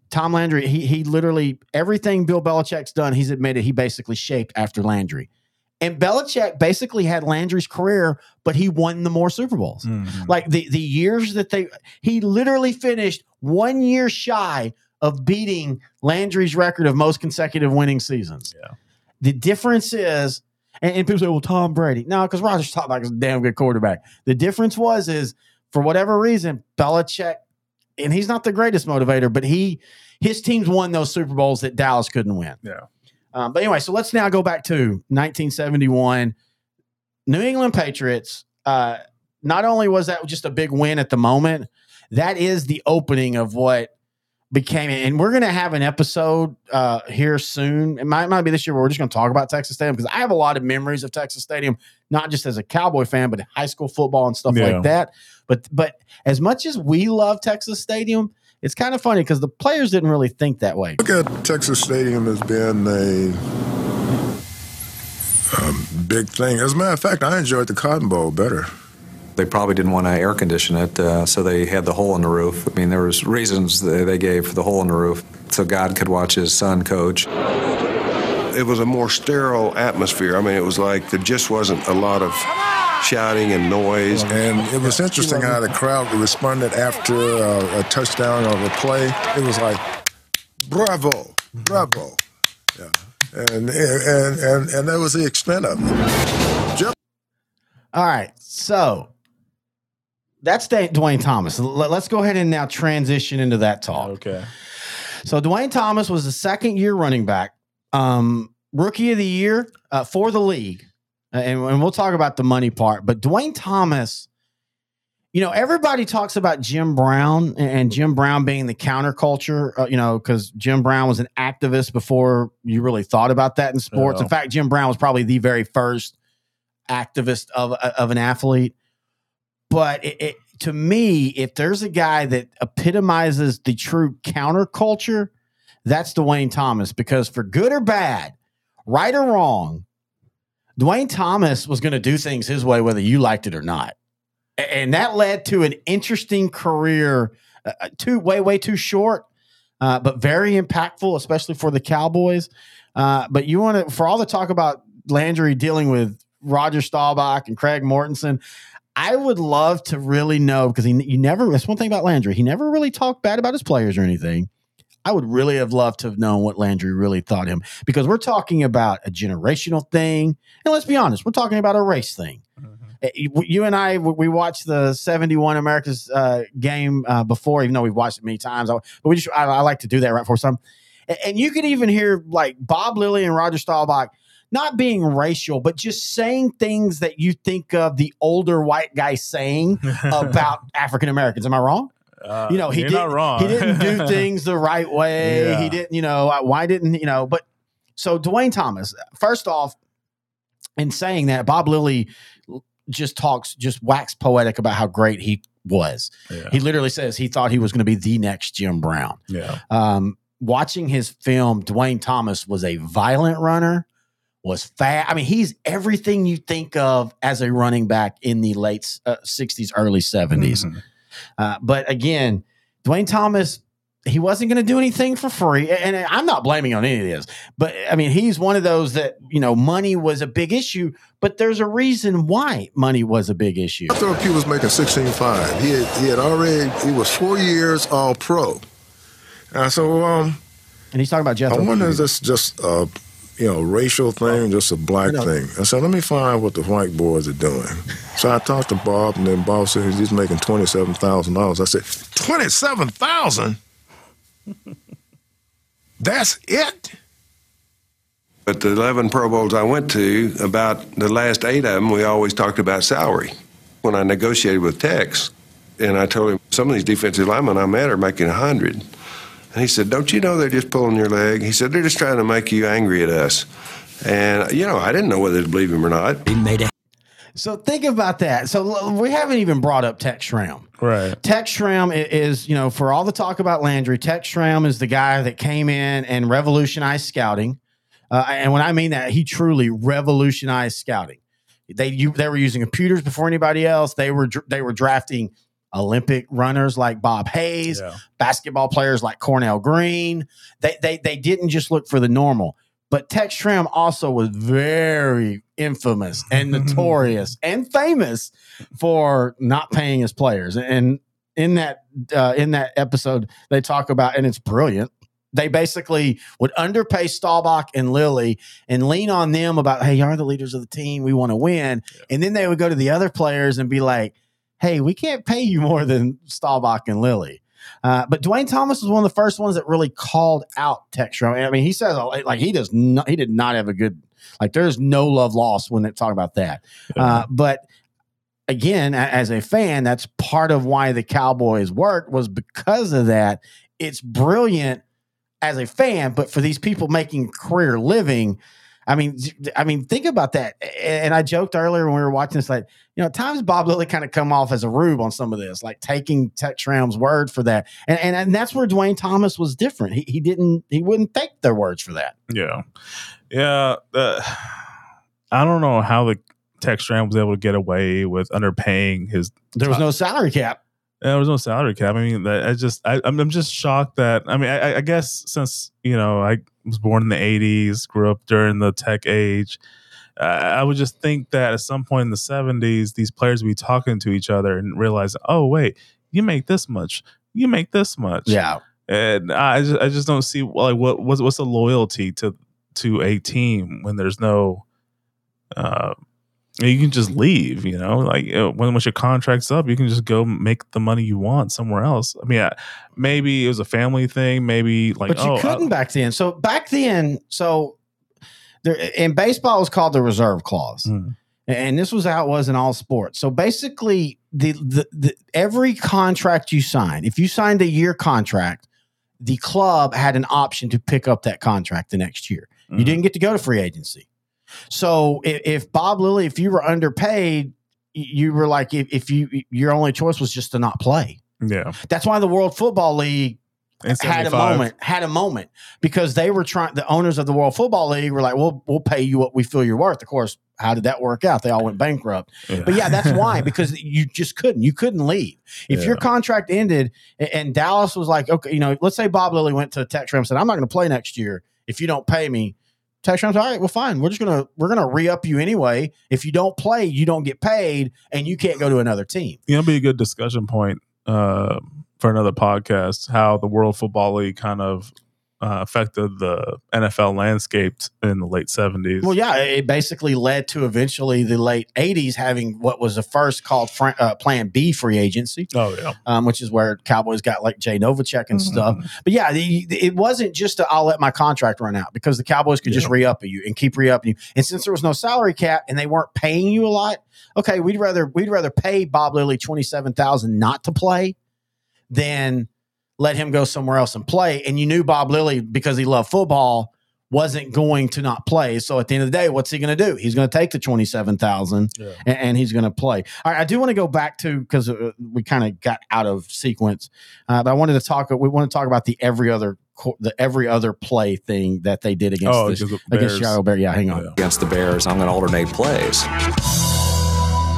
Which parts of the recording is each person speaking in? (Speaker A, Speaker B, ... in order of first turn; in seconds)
Speaker A: 0.1-5.3, 5.8-18.5, 19.2-27.4, 28.0-32.6, 33.3-36.4, 37.3-43.9, 44.5-61.0, 84.1-85.7, 97.9-99.1, 100.4-104.1, 105.2-114.3, 115.3-126.2, 126.9-128.7, 129.7-135.3, 135.8-138.3, 138.9-139.8, 140.8-143.9, 144.6-149.3, 149.8-158.4, 159.0-164.5, 165.1-172.4, 173.0-191.9, 192.5-197.4, 198.0-199.8, 200.8-213.9, 214.4-220.7, 221.4-234.0, 240.9-242.0, 277.4-280.7, 281.2-287.6, 288.1-337.6, 338.5-344.8, 345.4-362.1, 369.6-370.6, 388.3-388.6, 405.1-407.8, 408.6-410.9, 411.5-418.6, 419.2-424.1, 424.7-431.2, 431.9-433.4, 434.0-459.4, 469.0-475.5, 476.1-491.2, 491.9-514.1
Speaker B: 9.8-10.4, 54.5-54.9, 104.0-104.5, 123.9-124.3, 189.9-190.5, 192.2-194.2, 195.2-195.8, 206.3-206.6, 209.3-209.6, 220.4-220.8, 280.8-281.2, 297.7-298.0, 306.5-306.9, 336.9-337.3, 362.3-362.6, 363.3-364.8, 365.3-369.8, 371.0-379.6, 380.2-394.6, 395.6-395.9, 396.6-405.7, 410.9-411.1, 422.7-423.0, 431.4-431.8, 433.8-434.7, 442.5-443.5, 445.7-446.0, 459.5-469.1, 475.5-476.0, 478.3-478.8, 482.6-482.9, 512.3-513.4
Speaker C: 61.0-63.4, 65.5-68.7, 84.3-89.8, 90.7-92.2, 92.8-95.9, 233.9-238.7, 239.5-240.4, 241.5-253.6, 256.0-256.9
Speaker D: 69.4-77.2, 514.2-516.1
Speaker E: 78.5-82.5, 83.0-84.3, 258.5-268.9, 269.5-273.5, 274.0-276.3